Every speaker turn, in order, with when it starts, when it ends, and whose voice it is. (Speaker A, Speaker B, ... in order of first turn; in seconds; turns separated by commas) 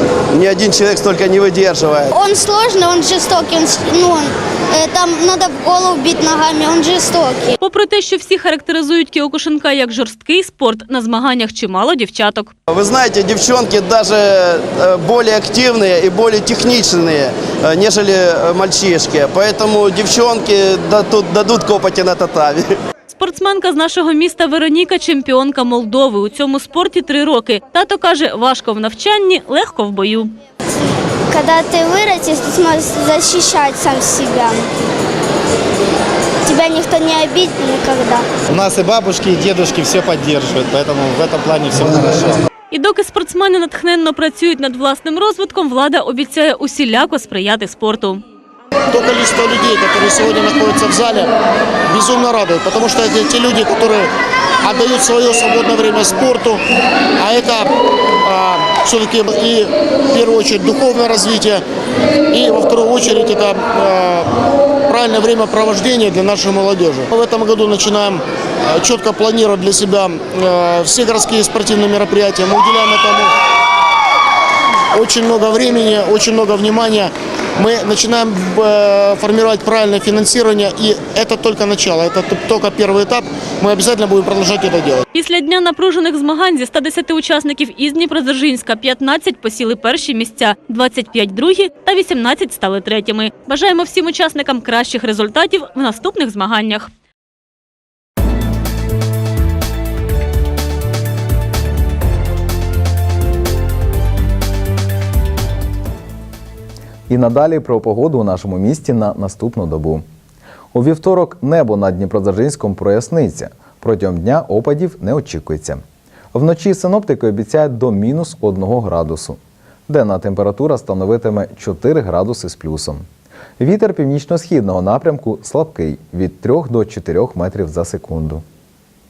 Speaker A: 0.3-2.1, Speaker B: 2.1-7.6, Speaker C: 7.6-12.5, Speaker A: 12.7-22.7, Speaker C: 23.1-30.3, Speaker B: 31.3-34.7, Speaker B: 36.5-38.3, Speaker D: 38.5-42.4, Speaker C: 42.7-48.2, Speaker E: 48.9-51.3, Speaker E: 51.9-54.1, Speaker E: 54.6-56.6, Speaker E: 57.2-57.7, Speaker E: 58.2-61.6, Speaker E: 62.3-64.3, Speaker E: 64.9-73.3, Speaker E: 74.9-85.0, Speaker C: 85.1-96.9, Speaker F: 107.1-110.0, Speaker F: 110.7-123.1, Speaker F: 123.6-128.4